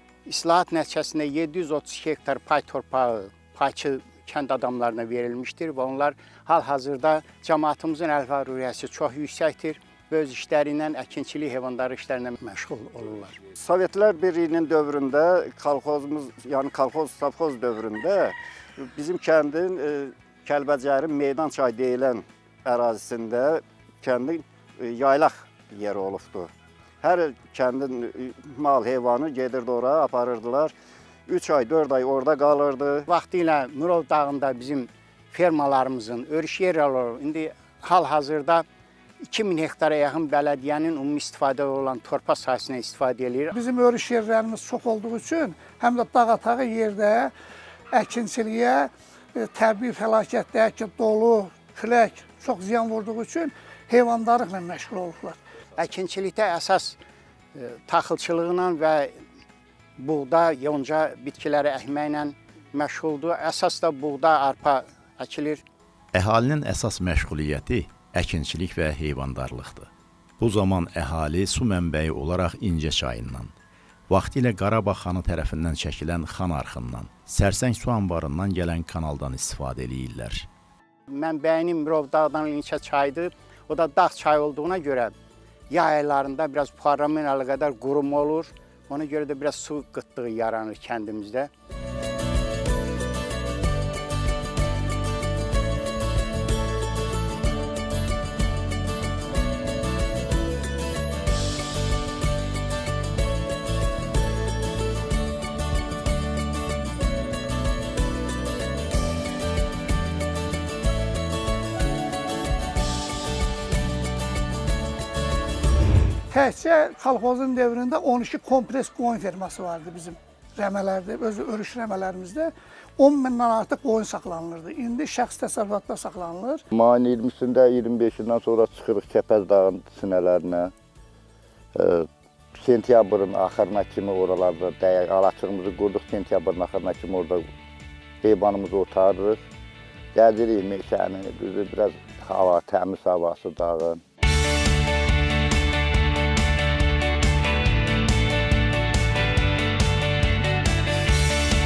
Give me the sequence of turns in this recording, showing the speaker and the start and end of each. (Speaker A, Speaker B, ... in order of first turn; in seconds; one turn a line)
Speaker A: 0.3-13.4
Speaker B: 13.6-26.5
Speaker B: 27.0-30.7
Speaker B: 31.3-33.1
Speaker A: 33.1-38.6
Speaker A: 39.2-43.5
Speaker C: 43.5-47.3
Speaker C: 47.9-55.4
Speaker A: 55.8-57.0
Speaker A: 57.5-59.1
Speaker A: 60.0-65.6
Speaker D: 66.1-73.5
Speaker D: 74.1-80.5
Speaker A: 81.1-85.1
Speaker A: 85.7-91.5
Speaker C: 116.3-126.6
Speaker E: 126.7-130.7
Speaker E: 131.8-137.4
Speaker E: 138.2-139.4
Speaker E: 140.2-144.0